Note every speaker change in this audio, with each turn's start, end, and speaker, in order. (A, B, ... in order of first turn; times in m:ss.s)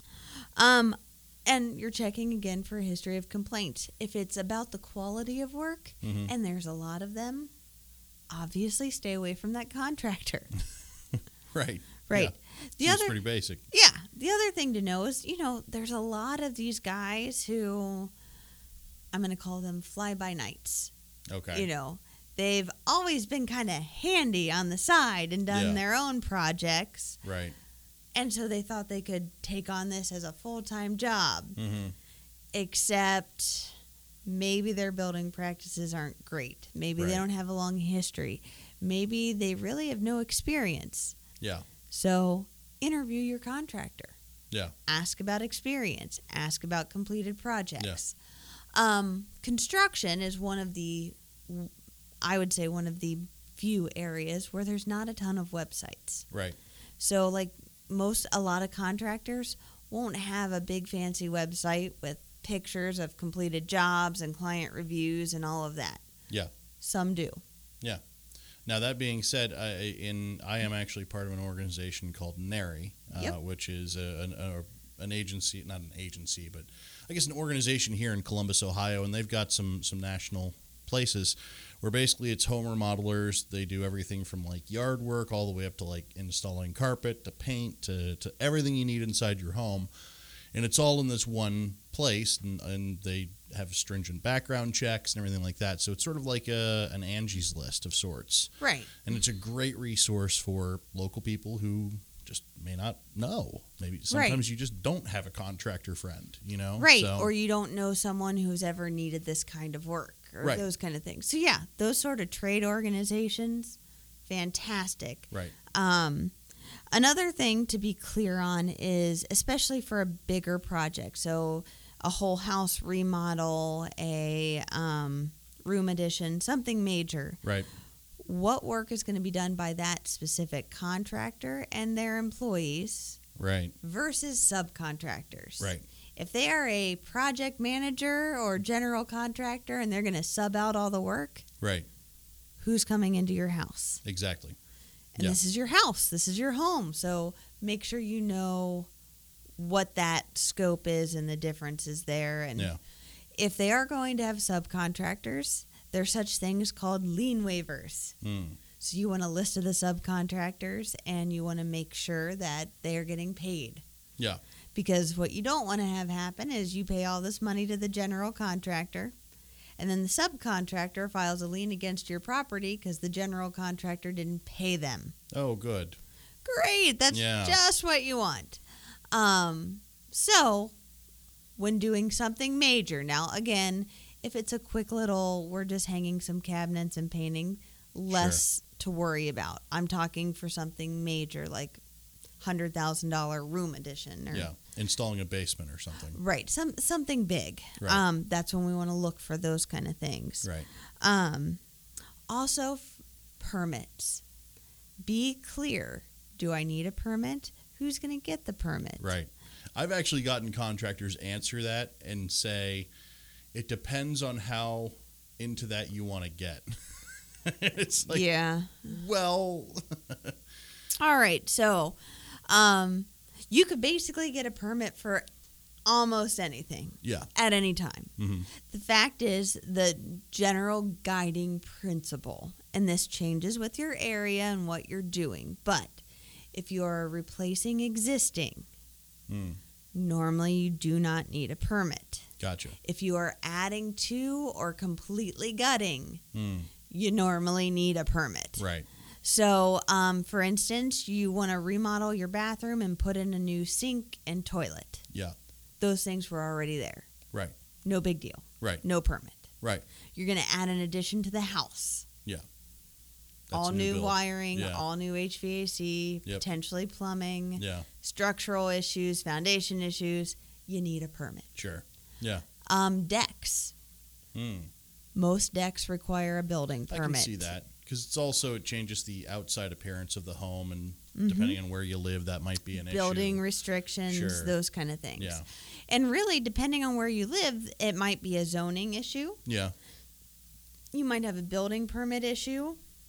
0:00.6-0:07.5 A
0:06.0-0:06.3 B
0:08.3-0:10.5 A
0:11.5-0:13.6 B
0:12.1-0:13.2 A
0:13.7-0:18.1 A
0:19.1-0:20.9 A
0:21.3-0:21.7 B
0:21.5-0:27.2 A
0:25.5-0:25.8 B
0:27.2-0:27.6 B
0:28.1-0:31.6 A
0:31.6-0:31.9 B
0:32.5-0:41.2 A
0:37.0-0:37.2 B
0:41.4-0:41.6 B
0:41.9-0:44.2 A
0:44.9-0:48.2 A
0:48.7-0:51.7 A
0:52.2-0:56.3 A
0:56.3-0:56.6 B
0:57.0-1:06.0 A
1:06.8-1:07.4 A
1:08.6-1:29.9 B
1:30.5-1:38.5 B
1:38.6-1:38.9 A
1:39.0-1:47.3 B
1:44.1-1:44.4 A
1:46.8-1:56.3 A
1:56.9-2:07.4 A
2:08.2-2:13.2 A
2:13.4-2:13.7 B
2:13.8-2:21.4 A
2:21.6-2:21.9 B
2:22.6-2:24.0 A
2:24.0-2:24.6 B
2:25.2-2:28.9 A
2:29.6-2:32.7 A
2:33.3-2:38.2 A
2:38.2-2:38.6 B
2:38.8-2:43.8 A
2:44.7-2:49.1 A
2:49.8-2:55.1 A
2:55.3-2:56.0 B
2:56.4-3:00.7 A
2:57.1-2:57.6 B
3:01.6-3:11.8 A
3:08.1-3:08.4 B
3:12.4-3:14.5 A
3:14.3-3:16.2 B
3:16.1-3:20.5 A
3:21.0-3:21.6 A
3:22.3-3:24.2 A
3:25.0-3:29.1 A
3:29.0-3:32.9 B
3:33.5-3:36.9 B
3:37.4-3:38.2 B
3:38.1-3:38.9 A
3:38.8-3:40.3 B
3:41.0-3:45.2 A
3:45.8-3:56.0 A
3:47.0-3:47.3 B
3:48.2-3:48.5 B
3:56.5-3:58.7 A
3:59.3-3:59.6 B
3:59.9-4:02.2 A
4:02.4-4:02.8 B
4:02.8-4:06.2 A
4:06.3-4:06.7 B
4:06.9-4:08.6 A
4:08.6-4:08.9 B
4:09.2-4:15.0 A
4:15.1-4:15.3 B
4:15.8-4:17.1 A
4:17.8-4:19.5 A
4:20.1-4:22.1 A
4:23.5-4:24.8 B
4:23.5-4:31.6 A
4:27.6-4:27.9 B
4:31.6-4:32.4 B
4:32.6-4:33.7 A
4:34.3-4:34.7 B
4:35.1-4:37.5 A
4:36.9-4:43.4 B
4:41.2-4:41.6 A
4:42.7-4:49.4 A
4:44.1-4:44.5 B
4:45.2-4:45.4 B
4:49.4-4:49.7 B
4:50.9-4:52.8 A